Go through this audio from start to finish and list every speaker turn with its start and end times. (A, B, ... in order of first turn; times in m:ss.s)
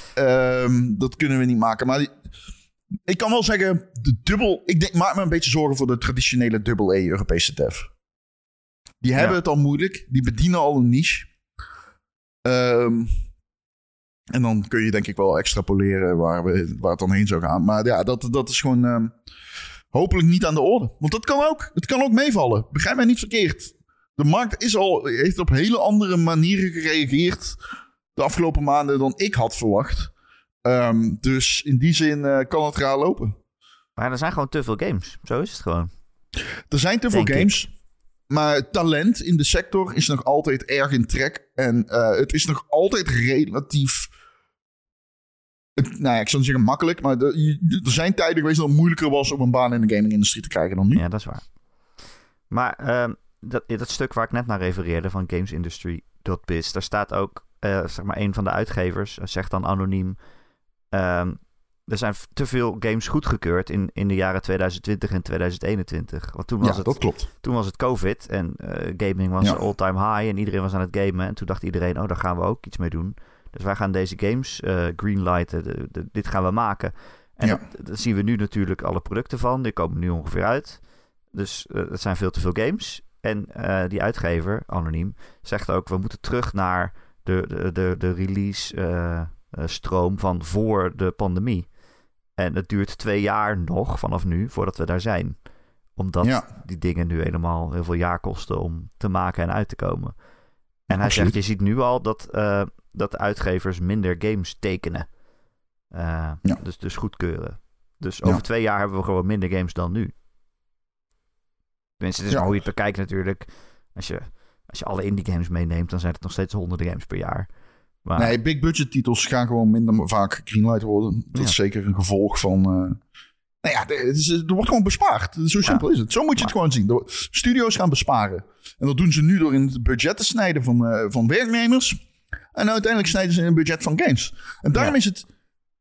0:00.1-0:02.1 A
0:03.0-0:07.9 A
0:09.0-0:11.3 A
0:12.4-0:13.2 A
0:14.3-0:19.1 A
0:19.9-0:27.6 A
0:28.2-0:30.1 A
0:30.6-0:33.3 A
0:34.0-0:35.9 B
0:36.7-0:37.7 A
0:37.1-0:37.6 B
0:38.3-0:44.1 A
0:45.8-0:51.0 A
0:50.9-0:51.4 B
0:52.5-1:00.2 B
1:00.9-1:20.8 B
1:06.6-1:07.3 A
1:21.3-1:31.7 B
1:32.4-1:35.4 B
1:36.0-1:40.1 B
1:40.9-1:45.1 B
1:40.9-1:41.3 A
1:45.9-1:50.1 B
1:52.0-1:57.5 B
1:58.0-1:58.4 B
1:58.2-2:03.0 A
2:03.6-2:12.0 A
2:12.5-2:15.2 A